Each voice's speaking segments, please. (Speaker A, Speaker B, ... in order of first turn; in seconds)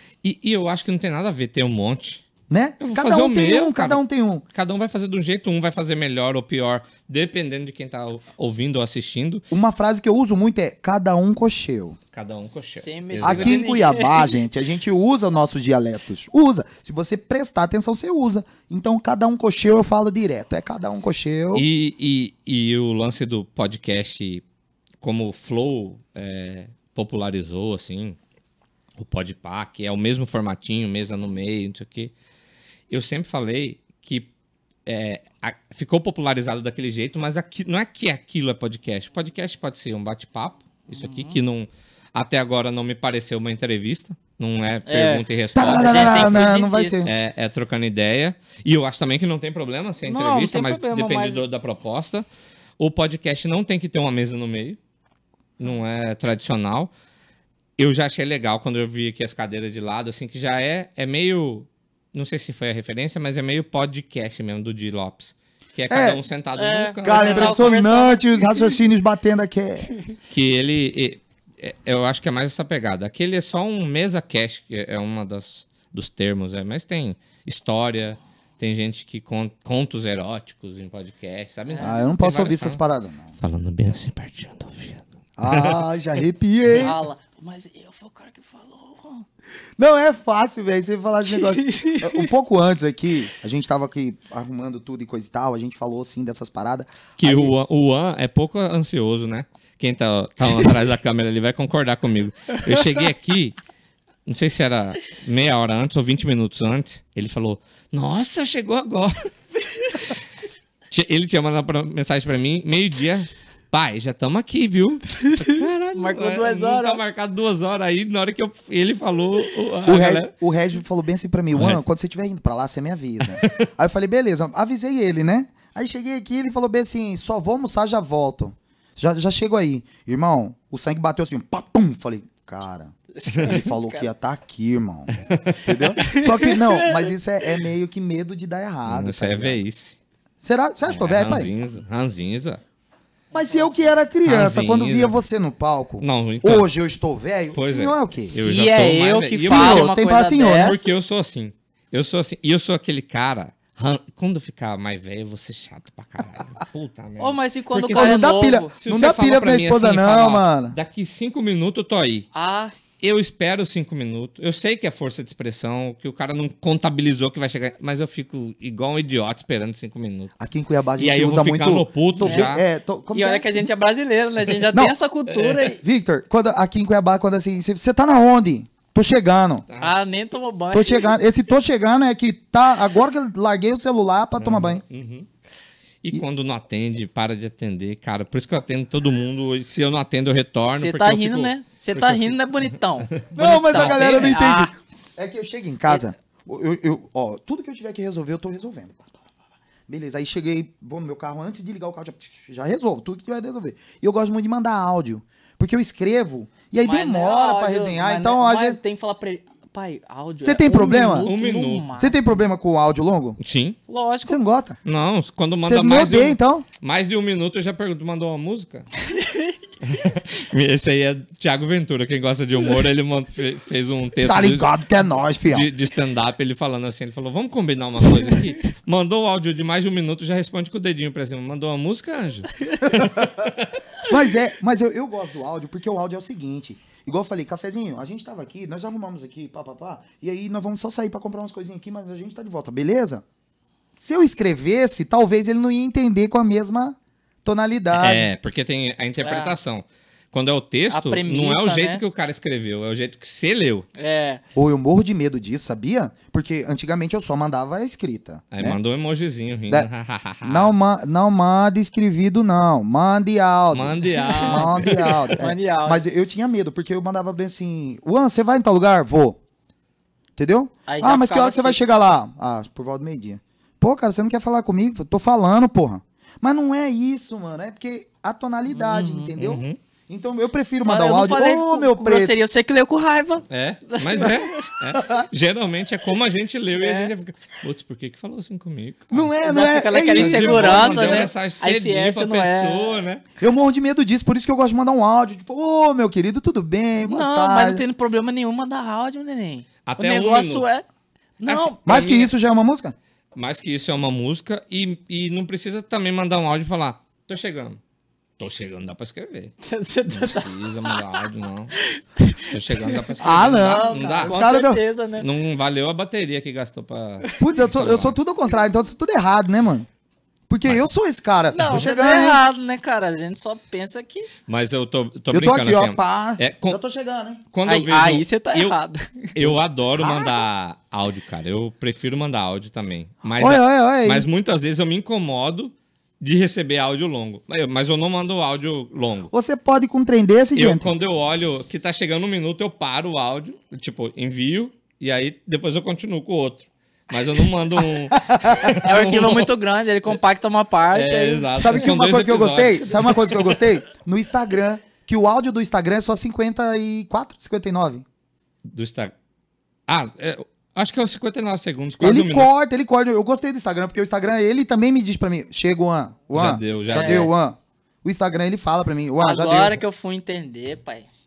Speaker A: 0.2-2.2, 2.8-4.0, 4.5-9.4, 12.1-13.6, 21.5-24.4, 25.0-28.2, 29.0-32.1, 32.9-34.3, 34.9-46.5, 47.0-52.2, 52.8-54.8, 55.6-56.9, 57.8-67.8, 70.3-82.8, 83.4-85.8, 97.2-103.6, 104.3-109.3, 109.9-110.2, 110.9-120.3, 121.5-121.8, 123.3-123.7, 135.2-135.9, 138.9-140.0, 140.9-142.6, 144.2-145.2, 146.0-146.7, 147.5-149.9, 150.5-162.3, 163.0-170.3, 171.0-172.6, 175.3-175.7, 179.7-179.9, 184.4-185.3, 186.0-194.3, 211.2-211.9, 213.4-213.8, 214.8-218.9, 219.8-224.8, 225.5-233.7, 247.9-253.9, 258.5-260.8, 263.7-265.3, 279.4-279.8, 283.5-289.3, 290.1-293.2, 299.9-300.7, 301.4-302.3, 303.4-307.8, 308.4-309.6, 310.1-311.8, 312.4-314.4, 315.2-318.2, 324.5-326.8, 327.5-328.8, 329.4-339.3, 340.6-349.5, 350.9-353.6, 358.7-359.1, 359.9-362.5, 366.3-367.3
Speaker B: 2.5-4.5, 9.5-12.0, 13.2-21.7, 45.5-47.1, 65.9-66.2, 67.0-69.9, 81.8-83.3, 85.4-87.0, 89.8-97.5, 119.9-139.6, 140.4-141.5, 143.3-148.4, 149.4-150.8, 157.9-160.8, 170.4-173.7, 175.8-179.7, 180.7-184.8, 193.3-199.2, 199.9-208.8, 210.4-211.3, 212.0-213.4, 214.2-214.8, 215.6-216.7, 224.2-225.7, 232.8-243.2, 244.0-248.3, 254.6-258.8, 260.4-269.4, 270.4-282.4, 285.0-285.2, 289.1-291.3, 293.4-297.8, 301.9-302.9, 313.2-314.8, 317.4-319.9, 320.5-322.4, 325.3-327.4, 330.0-330.4, 333.4-334.3, 339.3-340.9, 348.1-348.7, 351.6-358.1, 362.0-369.8
Speaker C: 12.6-14.4, 40.9-41.4, 44.9-47.0, 50.1-51.4, 66.6-68.8, 81.7-82.1, 86.8-89.3, 91.3-92.3, 115.2-117.0, 133.1-134.1, 136.0-137.1, 143.3-143.8, 148.3-150.8, 157.2-158.7, 162.3-162.8, 172.2-172.5, 173.1-175.8, 179.8-181.2, 190.7-194.7, 206.8-212.4, 213.9-214.4, 219.1-219.6, 249.2-249.6, 250.9-252.0, 254.0-254.4, 264.1-266.0, 270.9-271.8, 278.7-279.3, 280.8-284.7, 286.8-287.1, 289.4-293.0, 297.0-300.9, 301.4-302.1, 309.6-311.2, 311.8-315.3, 321.5-324.3, 327.7-329.5, 348.8-351.9, 366.9-367.3, 369.2-371.1